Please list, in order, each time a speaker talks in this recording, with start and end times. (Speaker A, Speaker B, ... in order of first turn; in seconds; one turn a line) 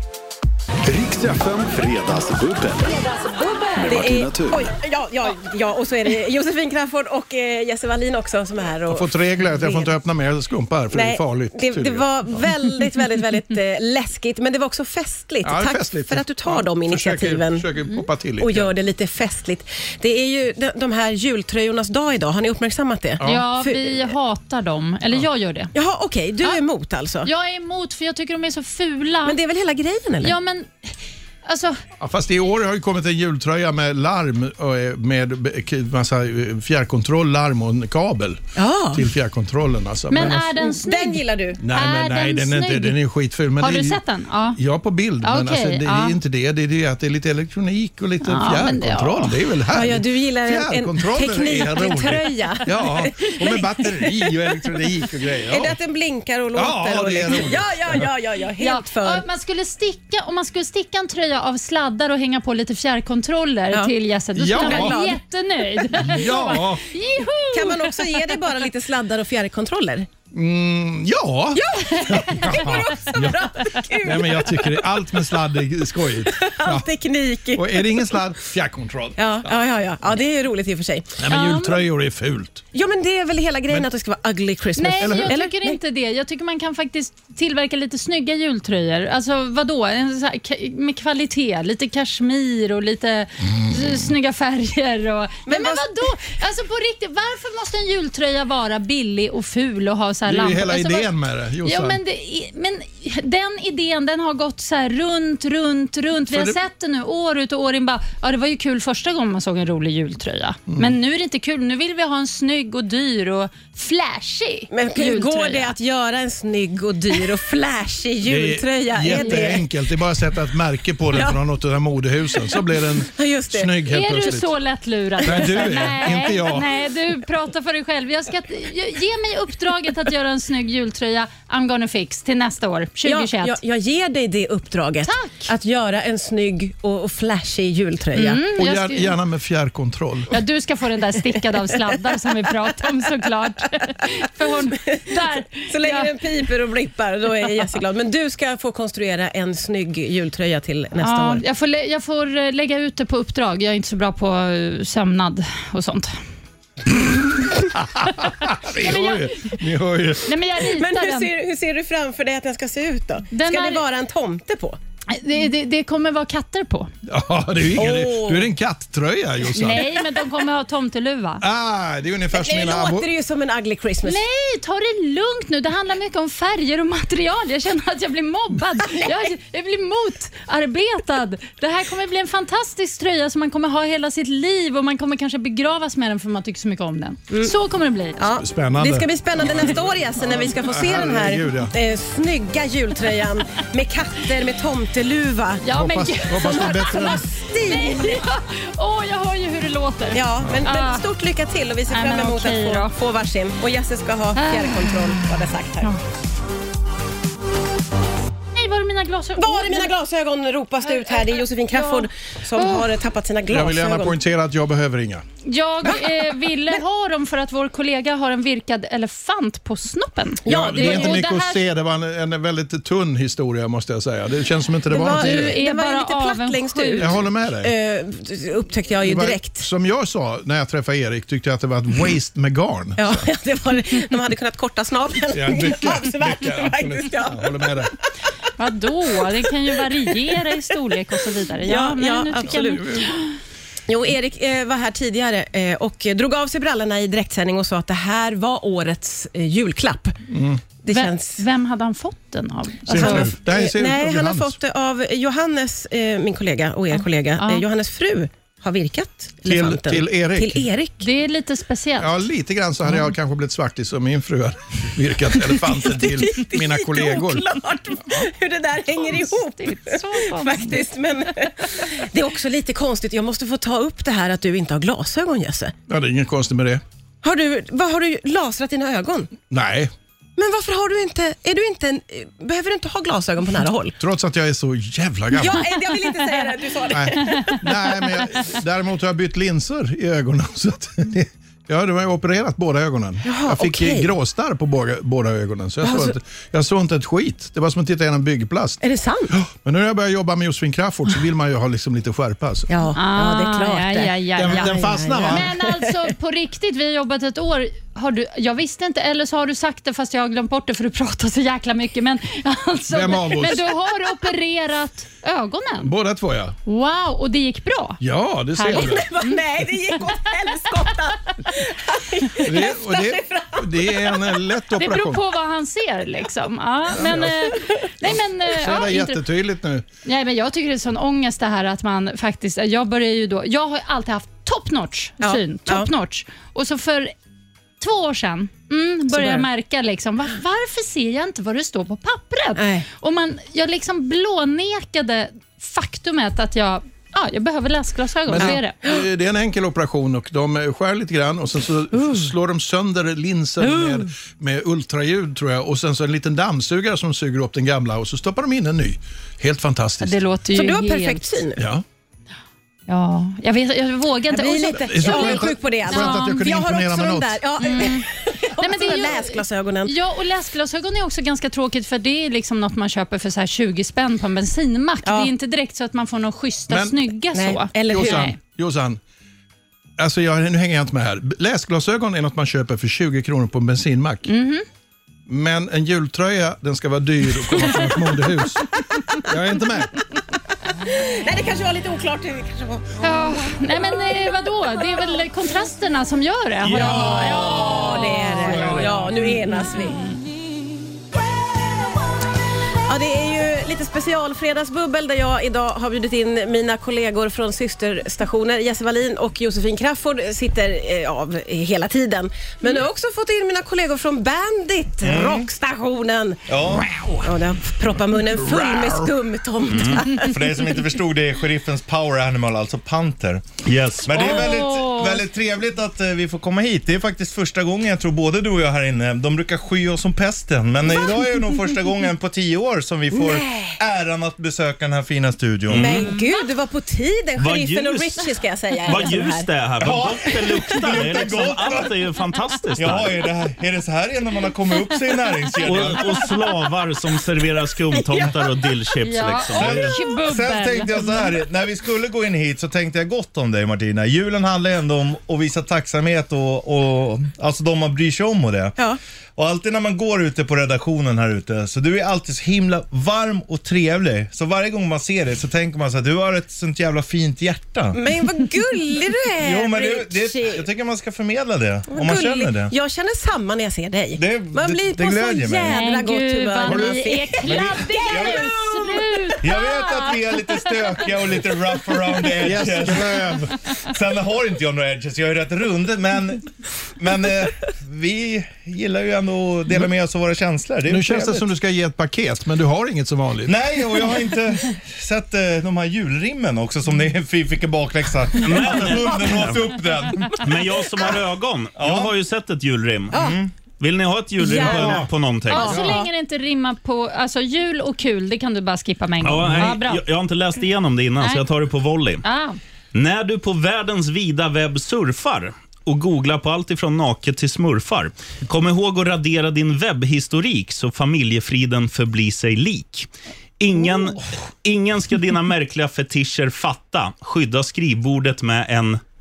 Speaker A: 0.9-3.0
Speaker B: 3.2-9.9
Speaker A: 3.8-4.7
Speaker C: 8.9-12.4
Speaker B: 10.9-17.7
Speaker C: 15.4-18.7
Speaker B: 18.4-24.1
Speaker C: 23.2-23.5
Speaker D: 23.2-25.7
Speaker B: 25.7-27.3
Speaker D: 27.2-29.4
Speaker B: 29.2-30.4
Speaker D: 30.2-31.8
Speaker C: 32.0-40.5
Speaker B: 38.6-39.0
Speaker D: 40.1-43.0
Speaker B: 40.6-41.6
Speaker C: 41.6-44.0
Speaker D: 43.6-44.6
Speaker C: 44.6-55.8
Speaker D: 45.2-46.2
Speaker D: 48.2-49.4
Speaker B: 49.7-54.7
Speaker B: 55.5-59.2
Speaker C: 56.5-58.0
Speaker D: 58.6-68.2
Speaker C: 64.4-65.0
Speaker B: 64.5-65.2
Speaker C: 65.9-66.8
Speaker B: 67.5-70.1
Speaker C: 70.3-73.4
Speaker B: 71.5-74.8
Speaker D: 72.0-72.8
Speaker C: 74.0-76.9
Speaker B: 76.3-78.2
Speaker C: 77.5-79.5
Speaker B: 79.2-81.2
Speaker C: 81.2-82.6
Speaker D: 81.3-81.8
Speaker B: 82.7-85.8
Speaker D: 84.8-101.1
Speaker C: 85.0-85.4
Speaker B: 95.5-96.3
Speaker C: 100.3-102.0
Speaker D: 101.6-115.8
Speaker C: 106.3-106.6
Speaker C: 110.7-110.9
Speaker B: 114.7-119.7
Speaker C: 118.2-124.5
Speaker D: 119.1-119.6
Speaker B: 121.1-121.4
Speaker B: 123.1-123.7
Speaker D: 123.9-133.6
Speaker C: 125.2-126.7
Speaker B: 125.4-125.9
Speaker B: 133.1-138.4
Speaker D: 135.1-135.5
Speaker D: 138.2-139.2
Speaker C: 138.5-140.3
Speaker D: 140.3-146.1
Speaker B: 145.5-151.4
Speaker D: 151.0-156.2
Speaker C: 157.7-160.3
Speaker D: 158.8-159.6
Speaker D: 160.2-161.3
Speaker B: 160.7-164.8
Speaker D: 163.3-163.8
Speaker D: 165.1-166.9
Speaker C: 167.1-169.9
Speaker B: 167.8-168.5
Speaker D: 169.6-171.4
Speaker C: 171.4-173.1
Speaker B: 172.3-174.2
Speaker D: 174.0-188.2
Speaker B: 188.2-195.6
Speaker C: 188.3-191.7
Speaker D: 195.7-201.0
Speaker C: 195.7-197.2
Speaker B: 196.4-198.2
Speaker B: 200.1-206.0
Speaker D: 201.9-202.9
Speaker D: 204.4-205.2
Speaker D: 208.6-209.9
Speaker B: 209.4-214.2
Speaker D: 210.8-212.9
Speaker C: 213.5-215.2
Speaker D: 215.5-221.6
Speaker B: 220.5-221.2
Speaker C: 220.5-225.6
Speaker B: 224.9-229.6
Speaker D: 225.1-227.2
Speaker C: 227.0-227.7
Speaker C: 229.0-233.2
Speaker B: 233.0-237.9
Speaker C: 235.3-237.9
Speaker D: 238.6-243.3
Speaker B: 241.6-242.8
Speaker C: 242.5-243.2
Speaker B: 243.9-250.2
Speaker C: 250.3-250.6
Speaker B: 250.8-251.4
Speaker D: 250.9-253.3
Speaker C: 252.9-254.6
Speaker B: 252.9-261.1
Speaker C: 259.5-260.7
Speaker D: 261.0-262.2
Speaker C: 262.0-267.5
Speaker B: 265.8-275.7
Speaker D: 268.9-270.8
Speaker C: 275.9-276.8
Speaker B: 277.2-279.3
Speaker C: 279.5-279.9
Speaker B: 280.4-284.0
Speaker C: 284.0-285.7
Speaker B: 285.4-287.6
Speaker C: 286.9-302.7
Speaker D: 287.1-287.5
Speaker B: 293.2-294.1
Speaker B: 295.8-296.1
Speaker B: 298.8-299.3
Speaker B: 302.7-306.1
Speaker D: 303.0-315.9
Speaker C: 304.4-305.5
Speaker C: 312.9-313.7
Speaker C: 315.8-316.6
Speaker D: 316.7-318.0
Speaker C: 318.0-319.1
Speaker D: 318.6-319.3
Speaker B: 318.7-324.3
Speaker C: 322.4-325.2
Speaker D: 324.8-329.2
Speaker C: 326.9-329.9
Speaker D: 330.1-337.1
Speaker B: 335.2-335.9
Speaker D: 337.8-348.8
Speaker B: 339.1-339.4
Speaker B: 342.6-342.9
Speaker C: 348.3-360.2
Speaker B: 348.4-349.0
Speaker D: 351.9-352.3
Speaker D: 360.0-361.4
Speaker B: 360.5-361.6
Speaker C: 361.6-361.8
Speaker D: 362.9-366.4
Speaker B: 364.3-369.9
Speaker C: 364.7-367.4
Speaker D: 367.6-368.1
Speaker D: 368.6-378.4
Speaker B: 375.1-375.3
Speaker C: 376.7-377.0
Speaker B: 377.3-378.3
Speaker C: 377.9-379.0
Speaker C: 380.0-384.3
Speaker D: 384.3-384.6
Speaker C: 385.3-389.9
Speaker B: 390.8-393.9
Speaker D: 393.0-398.9
Speaker C: 396.6-399.1
Speaker B: 396.7-400.1
Speaker B: 402.9-416.5
Speaker E: 415.0-415.5
Speaker E: 416.5-417.0
Speaker C: 416.9-417.2
Speaker B: 417.2-420.4
Speaker C: 418.7-419.0
Speaker F: 419.7-420.0
Speaker E: 420.1-423.5
Speaker F: 423.6-424.3
Speaker E: 424.0-436.0
Speaker D: 424.1-425.2
Speaker B: 424.2-424.5
Speaker B: 431.1-431.4
Speaker B: 433.1-433.8
Speaker F: 435.7-436.1
Speaker B: 435.7-439.5
Speaker D: 436.0-436.3
Speaker F: 437.4-438.3
Speaker F: 438.8-443.2
Speaker E: 439.8-441.9
Speaker B: 440.3-440.6
Speaker E: 442.8-446.3
Speaker F: 445.6-450.0
Speaker B: 448.0-448.5
Speaker D: 449.0-451.3
Speaker E: 449.5-458.8
Speaker E: 459.4-468.0
Speaker B: 467.9-470.7
Speaker E: 469.4-472.7
Speaker B: 471.9-478.7
Speaker E: 474.2-475.8
Speaker D: 475.6-481.0
Speaker E: 476.7-478.5
Speaker E: 479.4-491.5
Speaker C: 482.4-483.5
Speaker C: 490.9-493.5
Speaker E: 493.4-500.9
Speaker F: 498.4-503.1
Speaker E: 501.8-502.1
Speaker B: 503.1-503.4
Speaker E: 503.1-503.5
Speaker F: 503.8-505.8
Speaker B: 504.4-506.1
Speaker C: 504.6-505.0
Speaker D: 505.5-510.0
Speaker F: 509.2-512.2
Speaker D: 511.2-511.5
Speaker D: 512.2-512.6
Speaker F: 512.9-529.0